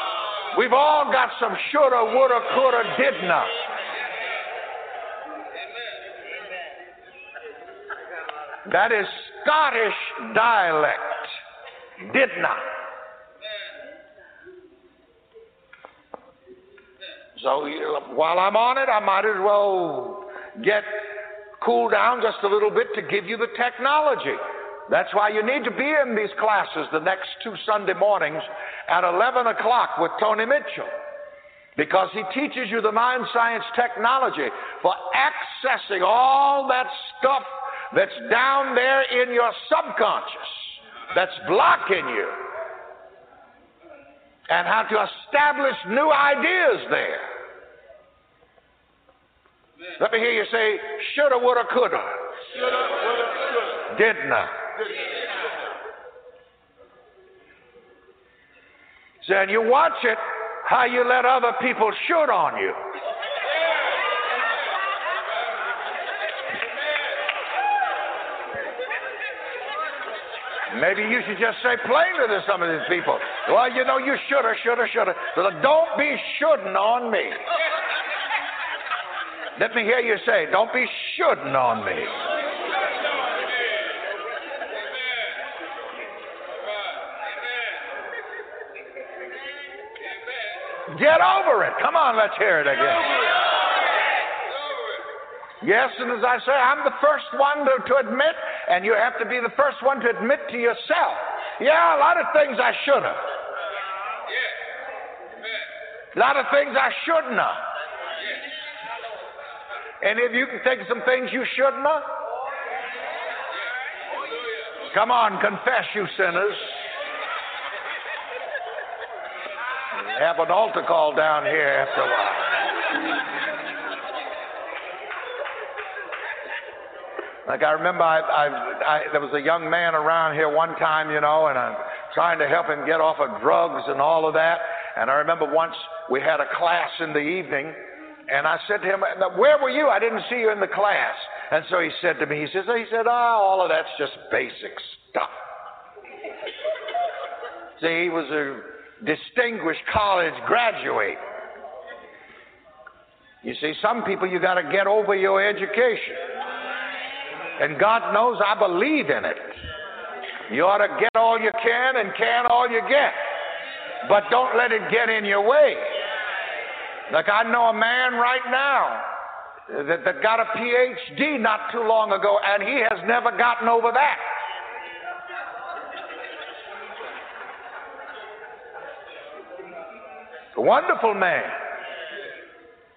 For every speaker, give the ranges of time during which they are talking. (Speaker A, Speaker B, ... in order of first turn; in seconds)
Speaker A: 0.5-3.5, 8.7-11.4, 12.0-12.7, 17.4-30.9, 31.8-42.4, 44.5-47.3, 50.0-52.3, 53.9-54.6, 59.2-62.9, 70.7-77.4, 79.5-82.2, 90.9-93.3, 95.6-103.3, 106.1-107.7, 110.0-112.1, 114.9-116.9, 119.9-122.7, 127.5-145.4, 147.8-151.2, 153.4-156.2, 157.6-159.6, 160.5-163.2, 164.0-166.0, 167.1-169.1, 169.7-174.2, 180.5-181.6